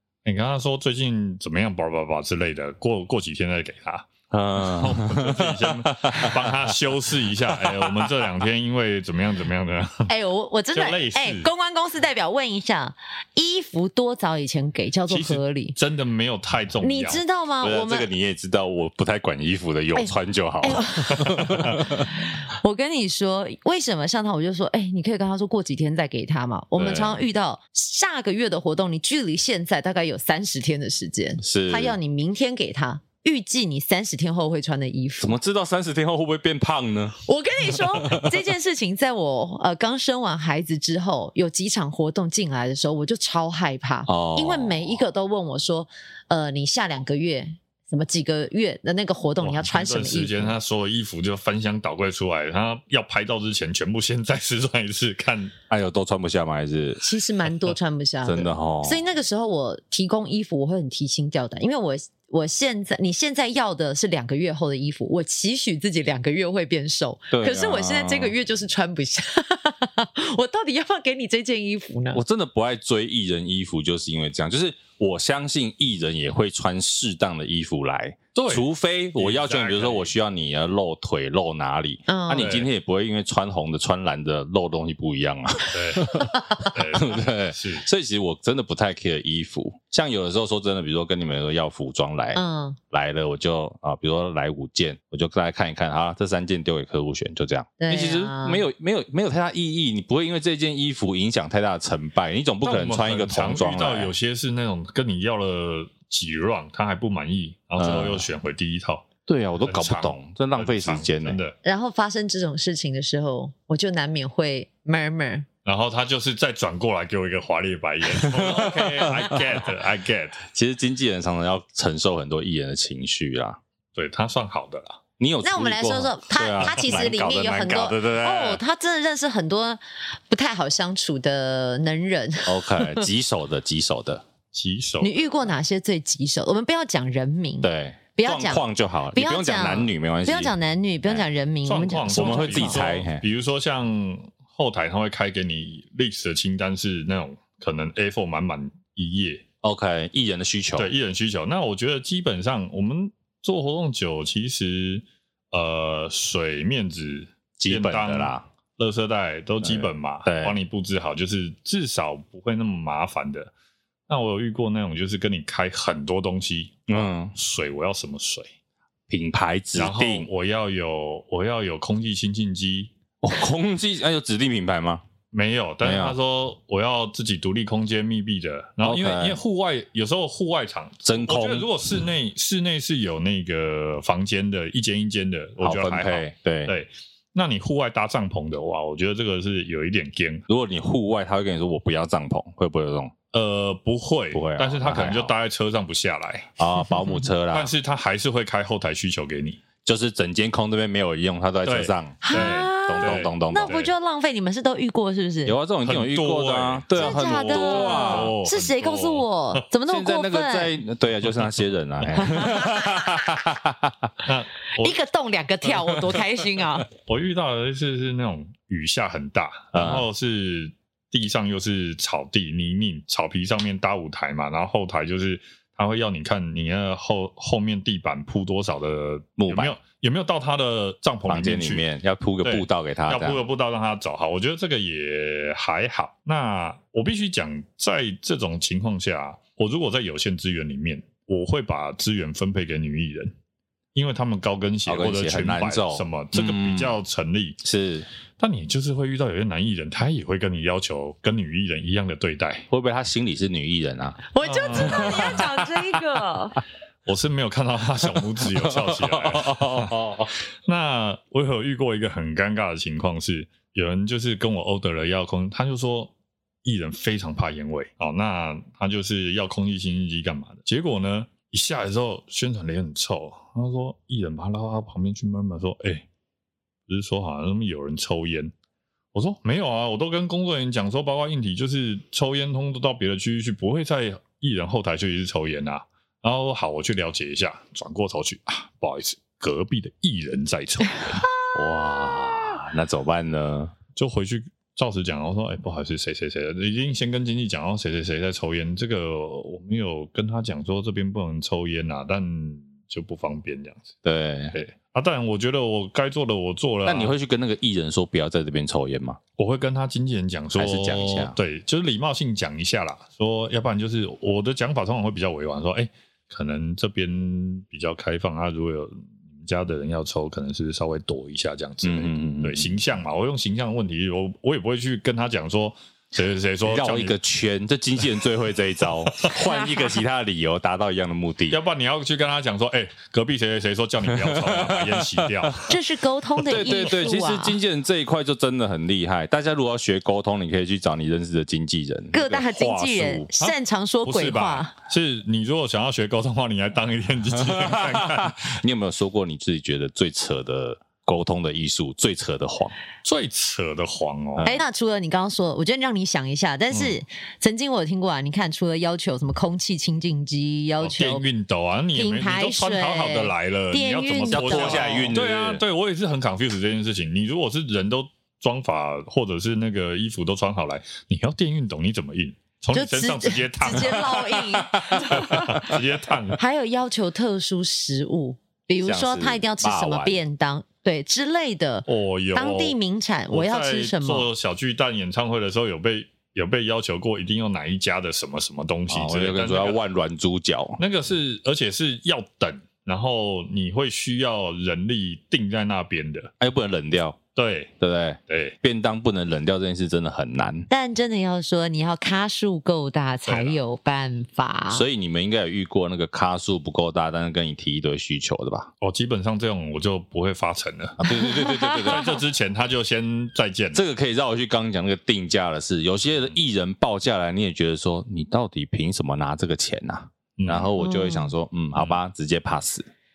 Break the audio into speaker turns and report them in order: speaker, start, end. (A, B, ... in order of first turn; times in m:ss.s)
0:00.2-0:10.1 A
0:04.3-0:06.7 B
0:07.4-0:08.1 B
0:10.1-0:15.8 C
0:10.7-0:11.5 A
0:15.1-0:17.2 A
0:16.8-0:18.1 C
0:17.6-0:22.1 B
0:20.0-0:35.4 C
0:21.2-0:21.8 A
0:26.8-0:27.2 B
0:31.4-0:32.0 B
0:35.2-0:37.2 B
0:37.2-0:50.6 C
0:38.0-0:38.3 B
0:44.1-0:45.0 B
0:49.4-0:55.5 A
0:55.7-0:57.0 B
0:57.0-1:12.2 C
0:58.2-0:59.0 B
1:07.3-1:08.3 B
1:12.1-1:44.1 B
1:18.3-1:20.1 A
1:22.1-1:22.6 C
1:22.3-1:22.7 A
1:25.7-1:27.8 A
1:26.3-1:26.7 C
1:32.3-1:32.8 C
1:37.8-1:38.6 C
1:42.6-1:49.1 A
1:47.8-1:48.2 B
1:49.3-1:51.4 B
1:49.6-1:51.6 A
1:51.6-1:55.5 C
1:55.6-2:00.4 A
1:58.2-1:59.5 B
2:00.5-2:03.6 B
2:04.0-2:05.0 A
2:05.2-2:08.6 B
2:05.4-2:13.1 C
2:12.4-2:14.2 B
2:14.5-2:15.4 A
2:15.0-2:22.8 C
2:17.6-2:21.2 B
2:21.6-2:29.4 A
2:22.1-2:23.2 B
2:29.6-2:30.9 B
2:30.8-2:43.5 A
2:37.6-2:38.4 B
2:39.6-2:40.6 B
2:44.1-2:48.5 A
2:46.9-2:47.3 B
2:49.1-2:50.3 B
2:49.7-2:52.9 A
2:53.2-2:55.0 B
2:55.3-3:10.4 A
2:55.8-2:56.2 B
2:58.8-2:59.4 B
3:01.0-3:01.7 B
3:05.6-3:06.7 B
3:10.5-3:13.1 B
3:13.3-3:16.5 A
3:14.3-3:15.3 B
3:16.6-3:17.7 B
3:17.5-3:19.6 A
3:19.8-3:23.8 B
3:21.6-3:23.9 A
3:22.2-3:25.6 C
3:25.4-3:28.3 B
3:25.8-3:29.6 A
3:26.9-3:30.7 C
3:29.9-3:34.1 B
3:32.1-3:33.4 C
3:34.2-3:35.0 A
3:34.8-3:36.9 C
3:36.9-3:51.8 A
3:39.7-3:40.0 B
3:49.4-3:49.8 B
3:51.3-3:53.4 B
3:52.4-4:03.3 A
4:03.9-4:07.6 A
4:04.8-4:07.0 B
4:07.6-4:08.1 B
4:08.4-4:12.7 A
4:12.7-4:15.5 B
4:14.3-4:16.6 C
4:14.4-4:15.5 A
4:17.0-4:20.0 A
4:18.4-4:20.3 B
4:20.6-4:26.1 A
4:26.6-4:36.0 A
4:36.9-4:38.5 A
4:39.1-4:51.3 A
4:51.5-4:53.7 B
4:54.0-5:03.9 A
5:04.0-5:04.5 B
5:04.5-5:07.1 A
5:06.8-5:09.2 B
5:09.4-5:27.2 A
5:10.5-5:11.4 B
5:21.8-5:22.8 B
5:26.6-5:31.6 B
5:29.4-5:29.9 C
5:31.5-5:35.7 A
5:34.0-5:35.7 B
5:35.7-5:37.6 C
5:36.4-5:43.3 B
5:42.1-5:44.7 C
5:43.4-5:48.5 A
5:47.3-5:52.7 B
5:53.0-5:54.5 A
5:54.4-5:54.6 B
5:54.4-6:01.2 C
5:56.7-5:57.0 A
6:00.8-6:16.4 A
6:01.9-6:05.2 C
6:04.3-6:05.6 B
6:12.7-6:15.7 C
6:14.6-6:15.6 B
6:16.4-6:24.3 C
6:18.8-6:20.2 B
6:21.9-6:22.8 A
6:23.3-6:29.8 A
6:28.9-6:30.8 B
6:30.8-6:36.3 A
6:36.4-6:37.2 B
6:37.4-6:37.7 A
6:37.8-6:40.7 B
6:38.3-6:38.6 A
6:40.7-6:44.8 C
6:43.2-6:43.6 A
6:44.7-6:48.7 B
6:48.8-6:51.0 A
6:51.0-6:52.1 B
6:51.0-6:52.1 C
6:51.8-6:53.8 A
6:53.7-7:02.9 B
7:00.4-7:00.7 A
7:00.8-7:01.3 C
7:01.7-7:02.0 A